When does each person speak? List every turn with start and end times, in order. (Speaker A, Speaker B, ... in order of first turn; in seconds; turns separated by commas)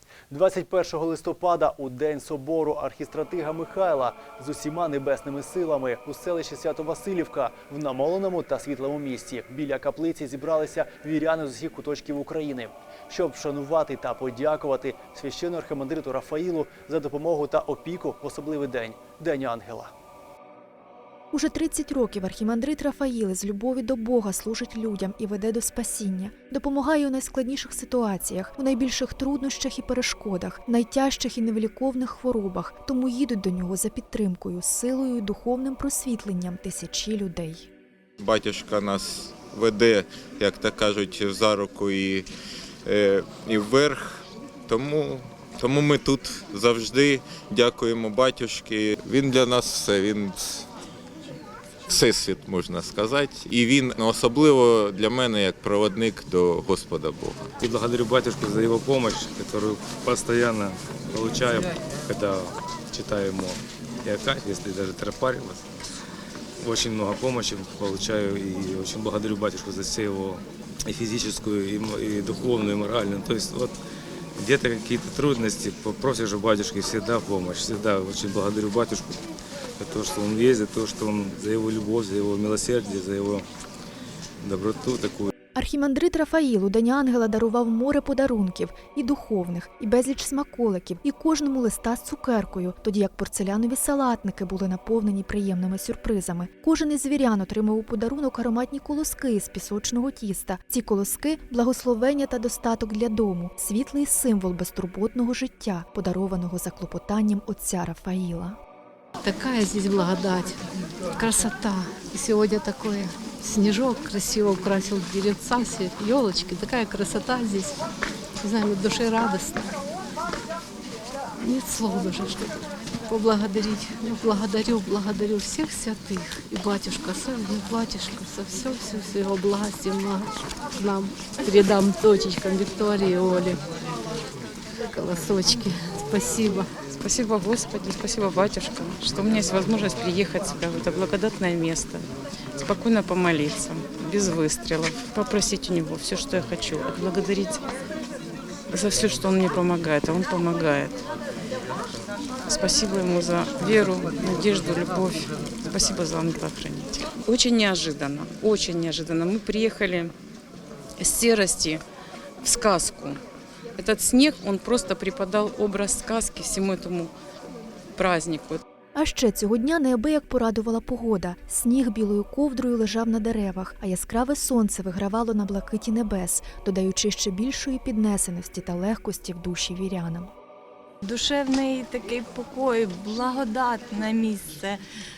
Speaker A: 0.3-19.9, Speaker B: 21.3-37.7, Speaker C: 38.2-42.3, Speaker C: 42.9-50.7, Speaker C: 51.9-57.4, Speaker D: 57.6-65.6, Speaker D: 66.6-73.8, Speaker D: 74.4-79.2, Speaker D: 79.8-83.5, Speaker D: 84.4-85.3, Speaker B: 85.5-108.6, Speaker E: 109.2-110.6, Speaker E: 111.2-117.8, Speaker E: 118.4-119.8, Speaker E: 121.4-133.6, Speaker E: 134.8-136.7, Speaker F: 137.0-142.1, Speaker F: 142.6-147.7, Speaker F: 148.7-151.0, Speaker F: 152.5-160.1, Speaker F: 161.0-161.8, Speaker F: 162.4-163.2, Speaker F: 163.8-167.1, Speaker F: 167.9-168.6, Speaker B: 168.9-180.3, Speaker G: 181.0-184.8